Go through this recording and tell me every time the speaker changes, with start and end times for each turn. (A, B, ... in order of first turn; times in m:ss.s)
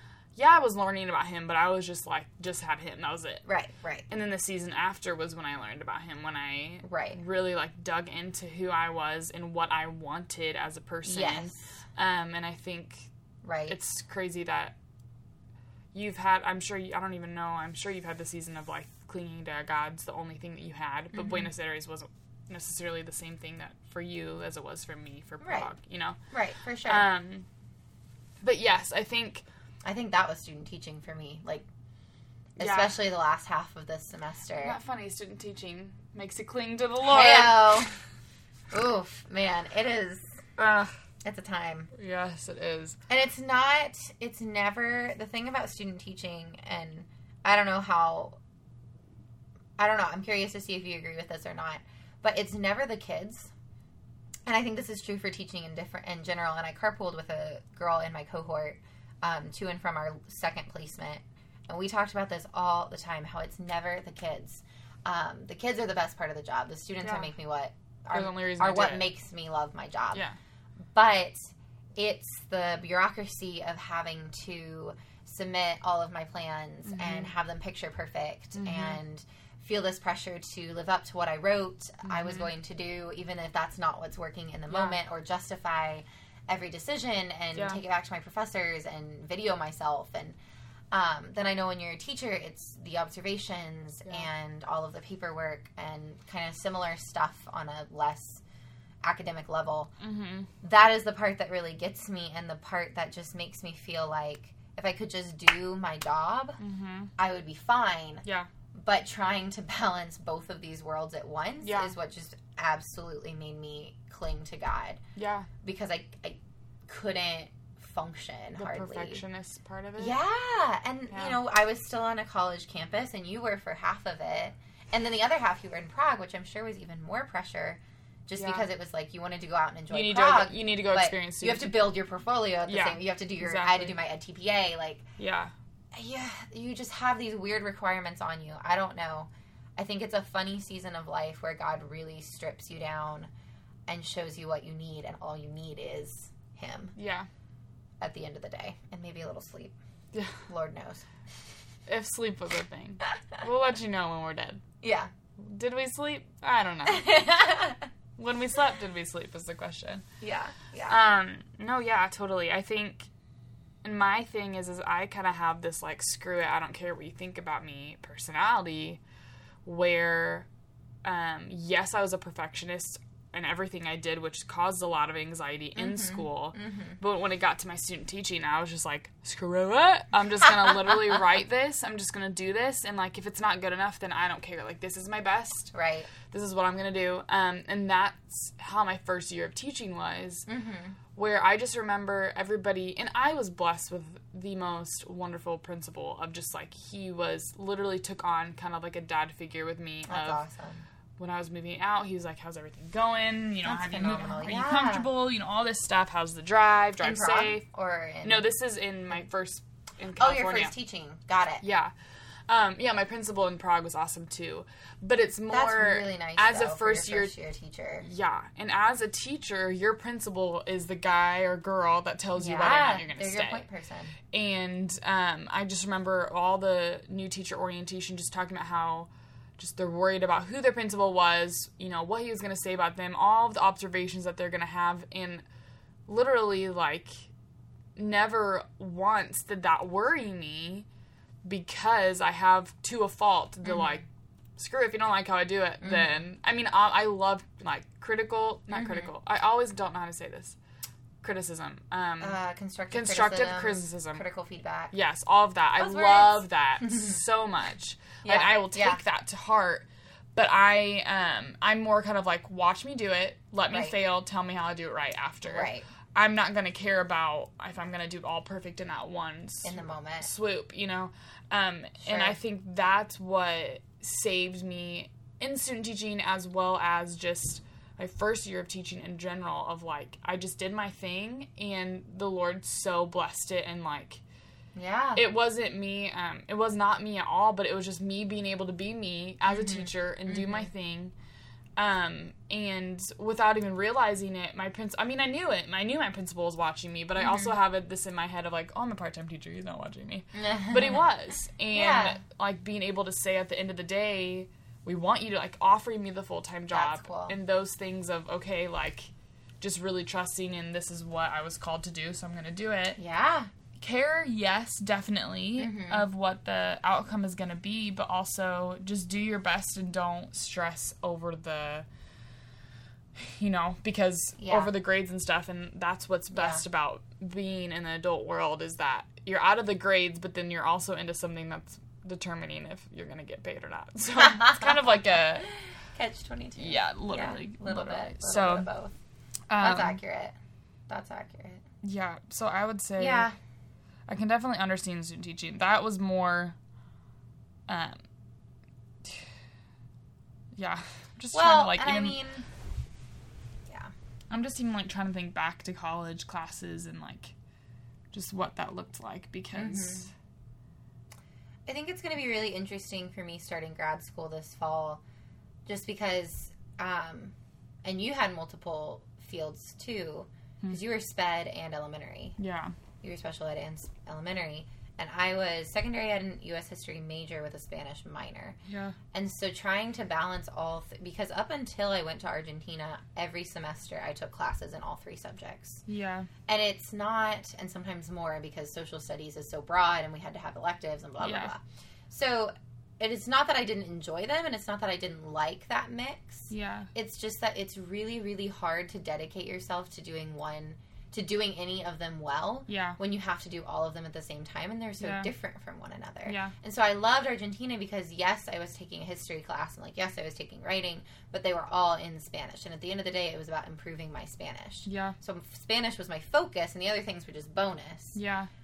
0:00.4-0:03.4 A
0:03.4-0:04.1 B
0:04.1-0:13.1 A
0:06.8-0:07.2 B
0:11.1-0:11.7 B
0:13.4-0:13.8 B
0:13.7-0:14.8 A
0:15.9-0:26.2 A
0:21.1-0:21.5 B
0:25.4-0:25.7 B
0:26.3-0:27.1 B
0:26.8-0:27.5 A
0:28.4-0:29.4 A
0:29.8-0:31.7 B
0:32.6-0:34.8 B
0:32.6-0:33.0 A
0:34.6-0:37.9 A
0:37.1-0:38.0 B
0:38.7-0:40.4 B
0:40.6-0:41.0 A
0:41.2-0:41.9 B
0:41.9-0:43.0 A
0:43.1-0:48.4 B
0:49.8-0:53.5 B
0:54.5-1:10.2 B
1:07.0-1:07.3 A
1:08.1-1:09.1 A
1:10.1-1:10.4 A
1:10.9-1:30.4 B
1:16.8-1:17.3 A
1:18.6-1:19.0 A
1:22.0-1:22.5 A
1:24.7-1:25.0 A
1:27.5-1:27.8 A
1:30.9-1:38.4 B
1:39.0-1:39.9 B
1:40.0-1:40.5 A
1:40.6-1:46.6 B
1:46.6-1:47.1 A
1:47.2-1:55.0 B
1:51.6-1:51.9 A
1:55.2-1:55.5 A
1:55.6-1:59.2 B
1:58.6-2:00.2 A
2:00.0-2:15.1 B
2:01.1-2:01.4 A
2:08.4-2:08.7 A
2:09.9-2:11.8 A
2:12.7-2:14.0 A
2:15.2-2:15.5 A
2:15.9-2:23.3 B
2:23.9-2:27.0 B
2:27.0-2:27.3 A
2:28.0-2:29.8 B
2:30.1-2:30.4 A
2:30.5-2:31.1 B
2:31.9-2:34.6 A
2:34.8-2:35.1 B
2:35.4-2:37.2 A
2:36.9-2:37.9 B
2:38.2-2:40.0 A
2:40.2-2:41.0 B
2:40.9-2:43.1 A
2:43.8-2:49.0 A
2:49.6-2:50.5 A
2:51.0-3:05.7 A
2:55.8-2:57.0 B
3:05.7-3:06.1 B
3:06.3-3:10.5 A
3:10.5-3:11.0 B
3:11.1-3:20.4 A
3:20.1-3:20.8 B
3:21.2-3:27.6 A
3:23.6-3:25.1 B
3:27.0-3:28.4 B
3:28.2-3:30.7 A
3:30.2-3:31.6 B
3:31.6-3:31.9 A
3:32.5-3:37.3 A
3:35.5-3:38.1 B
3:38.0-3:43.7 A
3:42.4-3:44.2 B
3:44.3-3:55.4 A
3:56.1-3:57.3 A
3:58.0-4:00.9 A
4:01.4-4:04.1 A
4:03.6-4:04.0 B
4:04.6-4:10.6 A
4:05.8-4:06.2 B
4:08.7-4:09.1 B
4:11.2-4:12.4 A
4:12.2-4:14.9 B
4:12.9-4:14.2 A
4:14.9-4:44.2 A
4:15.8-4:17.2 B
4:18.2-4:19.0 B
4:23.7-4:24.0 B
4:25.4-4:25.9 B
4:29.6-4:30.3 B
4:32.0-4:32.4 B
4:44.8-4:45.2 B
4:45.2-4:51.1 A
4:49.5-4:50.7 B
4:51.8-5:13.0 A
4:57.2-4:57.5 B
5:00.3-5:01.0 B
5:01.7-5:02.2 B
5:06.7-5:07.4 B
5:13.0-5:13.5 B
5:13.8-5:21.9 A
5:15.6-5:16.1 B
5:23.2-5:35.5 A
5:24.4-5:24.7 B
5:26.3-5:26.6 B
5:34.2-5:38.9 B
5:36.6-5:38.7 A
5:39.5-5:40.0 A
5:39.6-5:40.4 B
5:40.9-5:41.6 B
5:41.8-5:43.3 A
5:43.0-5:43.4 B
5:44.1-5:46.6 A
5:47.7-5:48.0 A
5:50.5-5:52.2 A
5:51.3-5:52.5 B
5:53.7-5:53.9 B
5:54.3-5:57.4 A
5:58.1-6:00.1 A
5:59.6-6:00.1 B
6:01.7-6:05.0 B
6:05.7-6:12.4 B
6:12.4-6:12.7 A
6:13.0-6:18.6 B
6:18.7-6:19.0 A
6:19.1-6:25.8 B
6:25.9-6:26.3 A
6:26.5-6:58.2 B
6:31.2-6:31.5 A
6:36.5-6:36.9 A
6:42.7-6:43.0 A
6:45.0-6:45.3 A
6:46.3-6:46.5 A
6:54.8-6:55.2 A
6:58.2-6:58.5 A